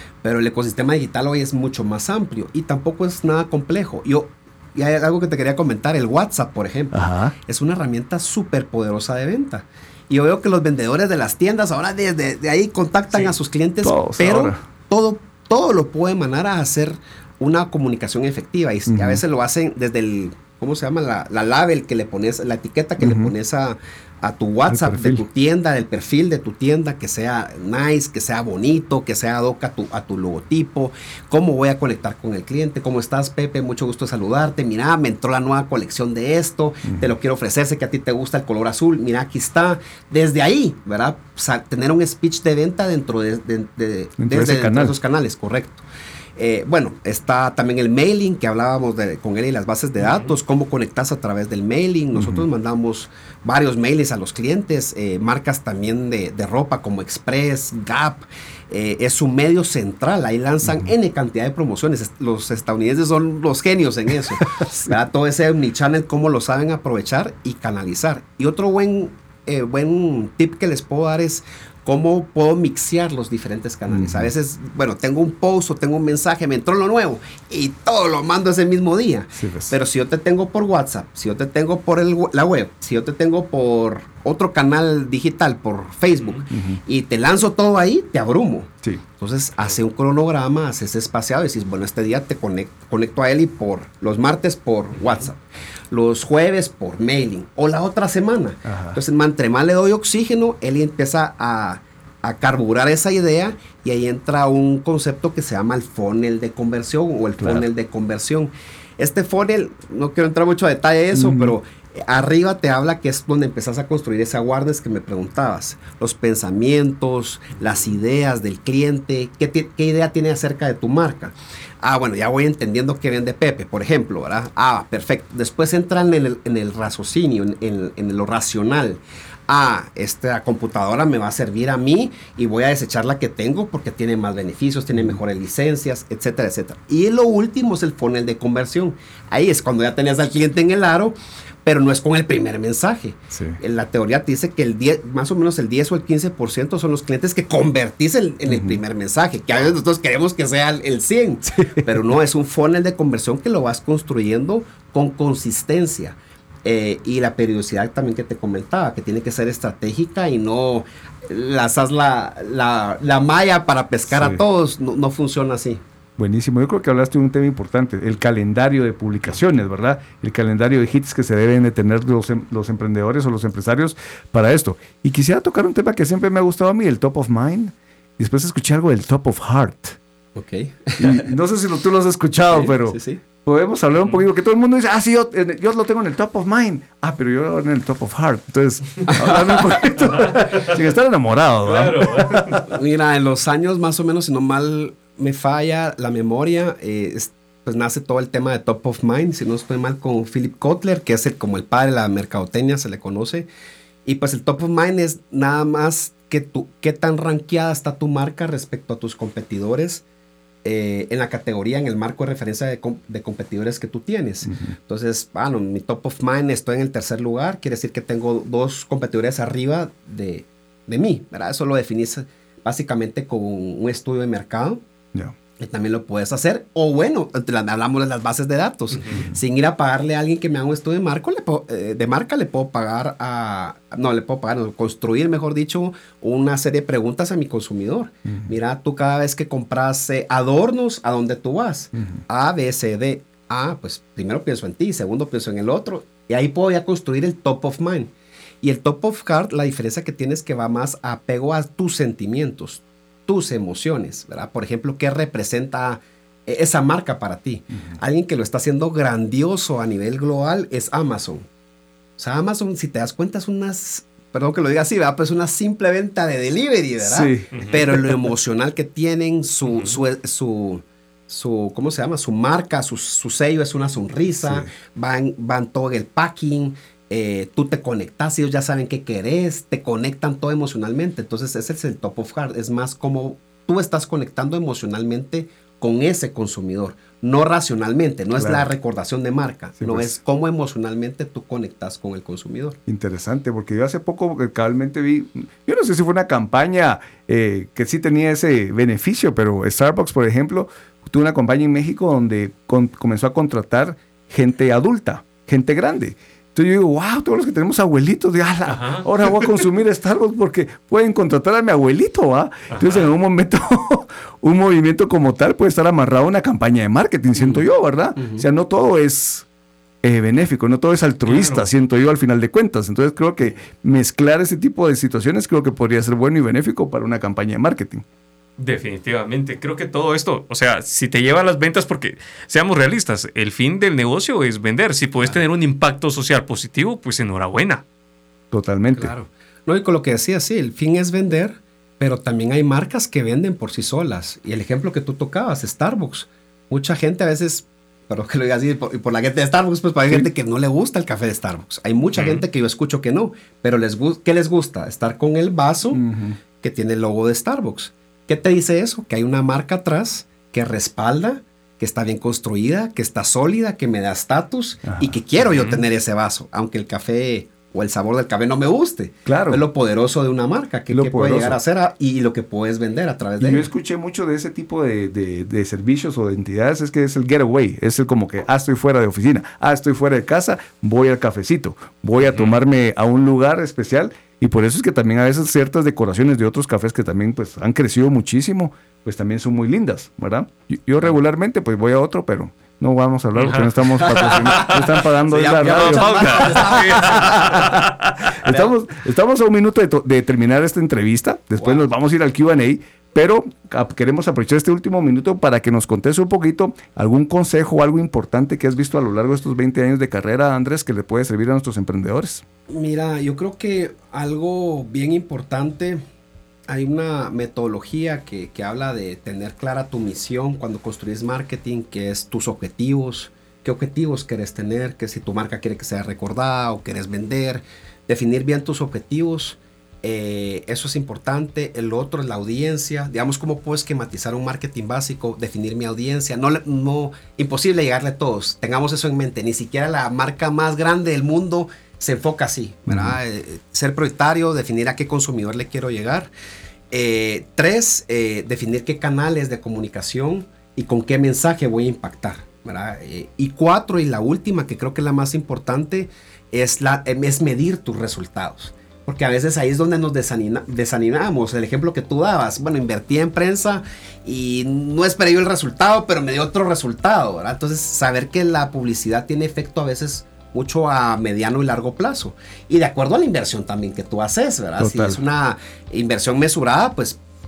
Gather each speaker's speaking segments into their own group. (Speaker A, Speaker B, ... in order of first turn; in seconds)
Speaker A: 0.2-45.8, 46.4-95.4, 95.9-165.8, 180.3-181.2, 182.5-183.2, 192.7-203.5, 204.0-210.0, 210.6-224.8, 225.6-261.5, 262.2-292.8, 317.3-318.4, 338.9-356.0, 356.6-373.7, 394.0-397.8, 398.4-398.7, 412.7-416.0, 416.7-446.3, 446.9-477.2
Speaker B: 6.9-7.3, 13.8-14.6, 18.9-19.2, 23.0-23.3, 24.7-25.2, 44.2-45.0, 52.1-52.4, 60.6-60.9, 64.4-64.7, 73.9-74.3, 79.3-79.7, 86.5-86.8, 98.7-99.0, 107.4-107.7, 111.1-111.5, 143.3-143.6, 148.5-148.8, 151.5-152.0, 164.1-164.4, 166.2-180.0, 181.0-192.6, 214.4-214.8, 241.9-242.2, 267.0-268.2, 274.4-274.7, 288.4-288.7, 289.8-290.2, 292.9-319.4, 320.0-328.0, 338.5-339.1, 355.9-356.4, 364.9-365.2, 369.2-369.6, 370.9-371.6, 373.4-412.4, 442.9-443.2, 474.8-475.2
Speaker C: 50.0-50.3, 190.1-190.7, 191.6-192.6, 267.5-267.8, 269.7-270.0, 308.7-309.1, 312.7-313.0, 321.2-321.6, 328.6-337.8, 352.1-352.4, 382.2-382.6, 393.3-394.8, 395.5-398.1